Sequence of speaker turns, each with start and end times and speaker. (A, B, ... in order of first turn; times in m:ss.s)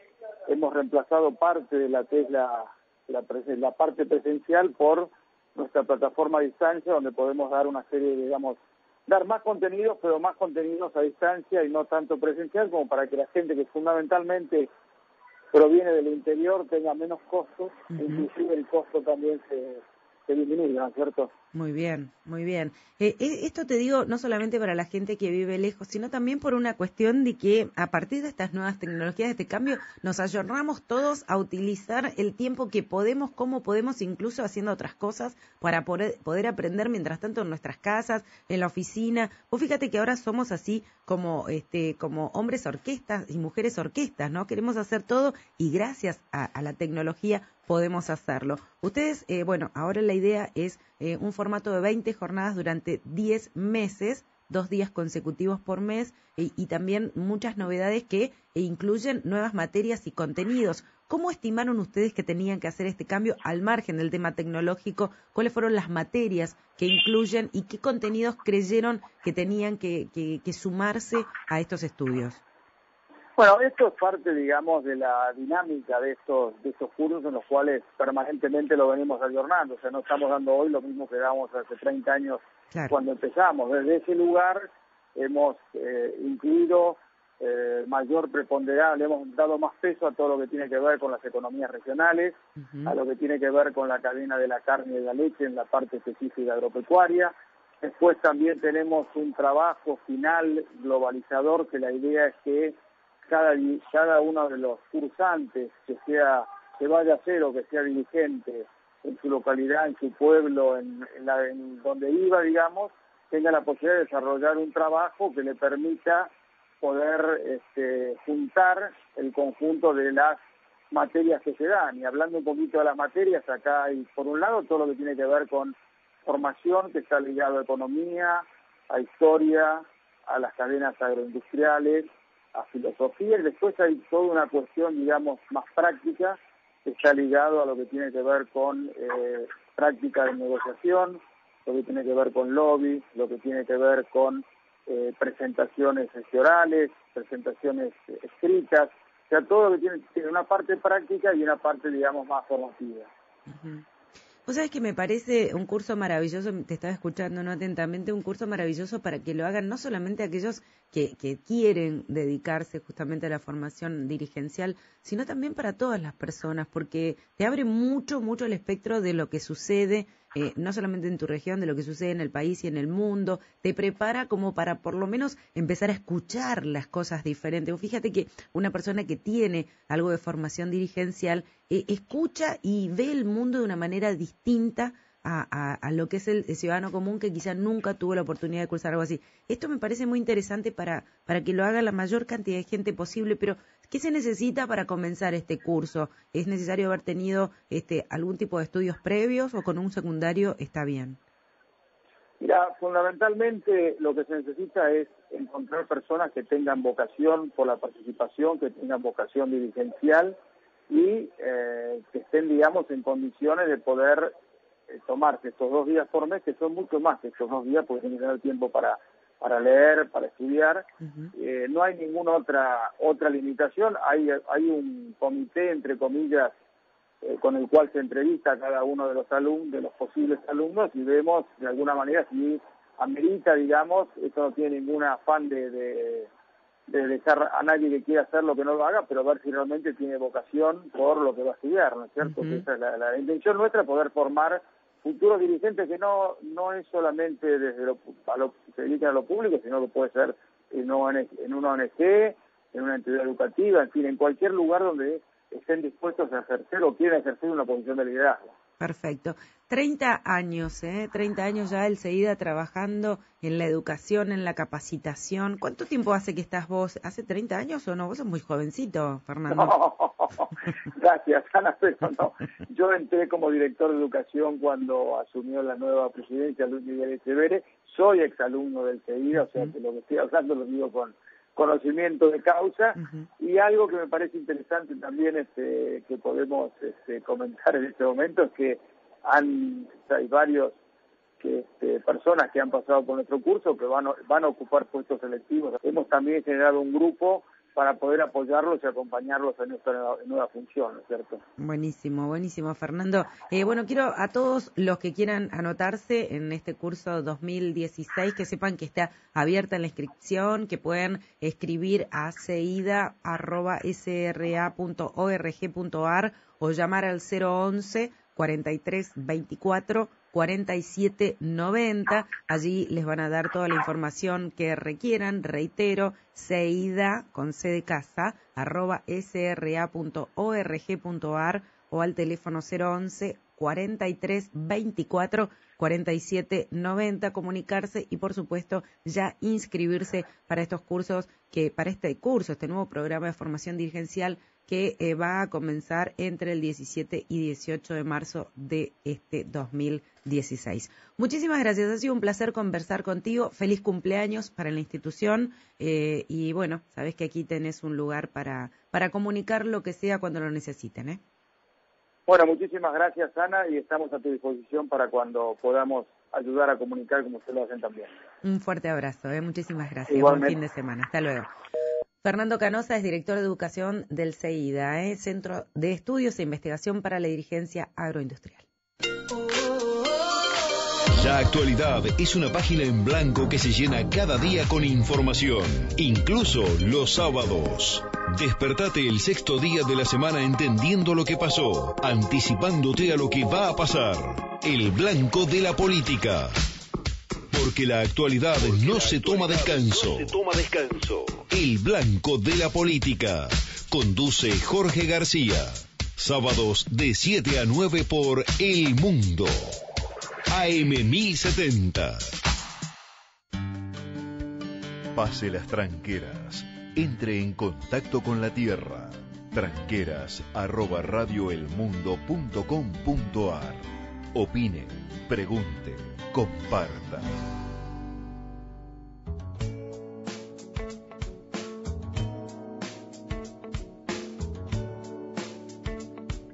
0:00.5-0:14.7 A
0:15.5-0:21.3 A
0:17.9-0:18.2 B
0:21.5-1:12.4 B
1:13.4-1:56.3 A
1:32.6-1:33.0 B
1:56.8-2:00.4 A
2:00.9-2:33.1 A
2:33.5-2:33.8 B
2:34.4-3:21.2 B
3:22.4-3:30.4 A
3:30.9-3:34.3 A
3:34.9-3:46.5 A
3:47.2-3:56.3 A
3:56.9-4:18.5 A
4:02.2-4:02.6 B
4:18.8-4:29.7 B
4:29.5-4:50.8 A
4:43.0-4:43.2 B
4:51.4-5:01.4 A
5:01.6-6:01.2 B
6:02.3-6:08.1 A
6:08.4-6:11.5 B
6:10.1-6:10.6 A
6:12.2-6:18.6 B
6:21.1-6:36.6 C
6:37.5-6:49.7 C
6:50.5-6:52.3 C
6:55.1-7:07.3 C